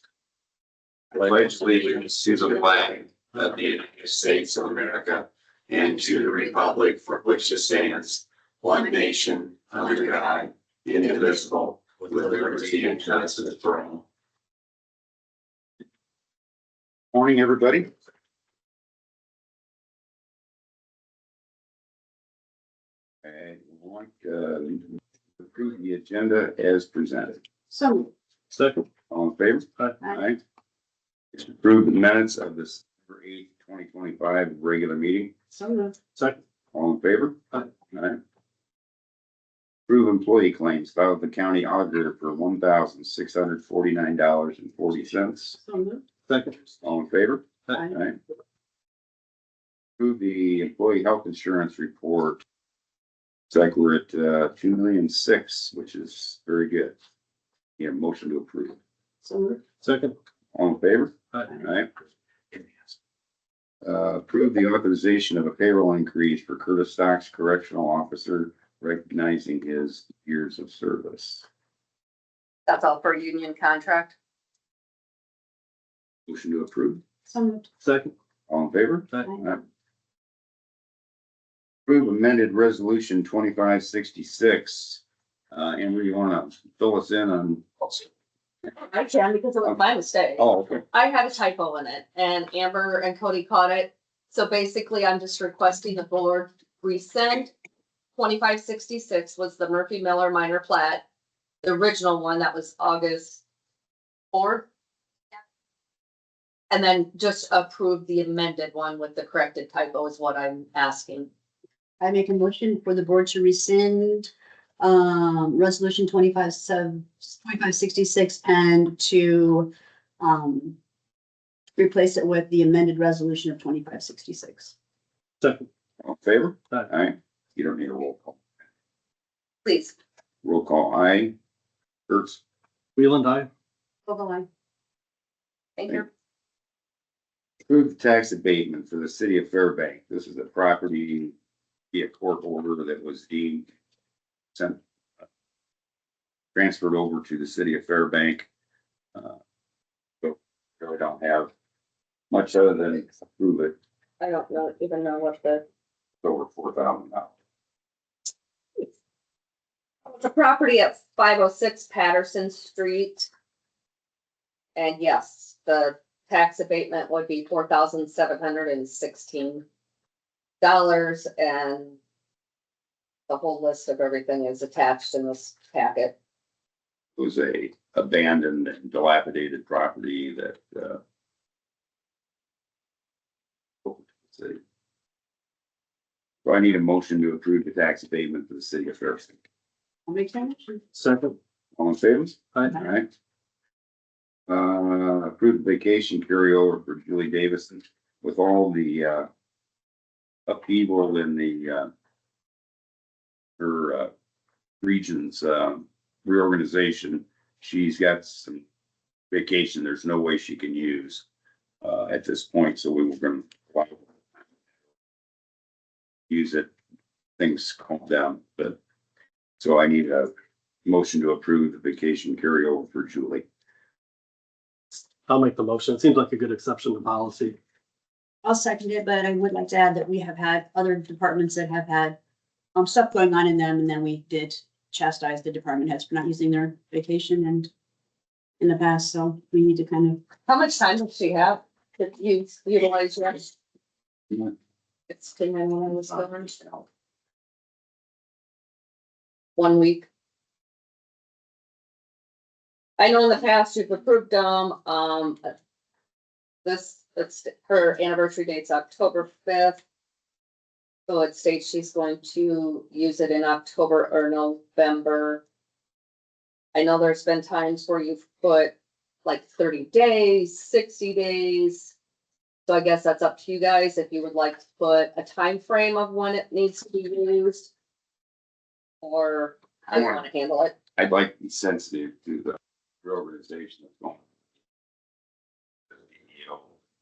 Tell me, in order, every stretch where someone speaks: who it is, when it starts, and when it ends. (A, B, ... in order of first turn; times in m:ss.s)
0:01.1-0:02.6 A
0:17.1-0:17.9 A
0:23.2-0:24.8 A
0:25.4-0:27.4 A
0:27.7-0:28.1 B
0:28.5-0:28.8 C
0:29.1-0:30.4 A
0:31.3-0:35.3 A
0:35.5-0:36.0 B
0:36.7-0:38.2 A
0:39.9-0:45.6 A
0:45.6-0:46.0 B
0:46.3-0:46.6 C
0:46.8-0:48.2 A
0:50.0-0:52.4 A
0:53.5-0:57.0 A
0:57.8-0:58.8 A
0:59.2-0:59.6 B
0:59.8-1:00.1 C
1:00.5-1:01.9 A
1:03.8-1:11.4 A
1:12.6-1:14.1 D
1:16.3-1:17.0 A
1:17.3-1:17.7 B
1:17.8-1:18.1 C
1:18.5-1:19.6 A
1:21.9-1:28.1 A
1:28.8-1:37.5 D
1:30.4-1:30.8 A
1:38.2-1:41.0 D
1:41.6-1:43.4 D
1:44.3-1:44.6 D
1:46.7-1:51.3 D
1:52.0-2:00.8 B
2:01.8-2:04.7 B
2:05.4-2:05.7 C
2:06.0-2:08.4 A
2:09.6-2:09.9 D
2:10.4-2:11.3 A
2:12.1-2:12.4 A
2:13.0-2:13.5 C
2:14.1-2:14.5 B
2:15.8-2:16.1 D
2:17.7-2:21.3 A
2:21.9-2:23.7 A
2:24.5-2:24.8 A
2:26.5-2:28.5 A
2:30.2-2:31.5 A
2:32.3-2:33.7 A
2:34.2-2:35.6 D
2:36.2-2:37.3 A
2:40.0-2:43.3 D
2:44.8-2:49.6 D
2:50.6-2:52.0 D
2:53.3-2:56.1 D
2:57.2-3:01.0 A
3:03.8-3:04.6 A
3:06.4-3:09.3 A
3:10.1-3:10.8 B
3:10.9-3:11.4 C
3:11.8-3:13.1 A
3:14.5-3:19.3 A
3:20.5-3:21.9 A
3:23.6-3:24.1 A
3:24.8-3:28.6 A
3:29.3-3:31.2 A
3:31.8-3:34.0 A
3:36.3-3:36.7 A
3:37.4-3:38.8 A
3:39.6-3:40.3 A
3:40.8-3:43.4 A
3:45.3-3:47.6 C
3:48.4-3:52.2 B
3:52.7-3:57.7 B
3:58.6-4:00.2 B
4:00.4-4:03.5 D
4:05.1-4:06.8 D
4:09.6-4:10.1 D
4:13.0-4:15.5 D
4:16.6-4:19.8 D
4:21.1-4:25.4 D
4:26.7-4:31.9 D
4:32.7-4:37.7 D
4:39.0-4:40.7 D
4:39.9-4:40.2 A
4:41.0-4:44.2 A
4:46.3-4:46.6 A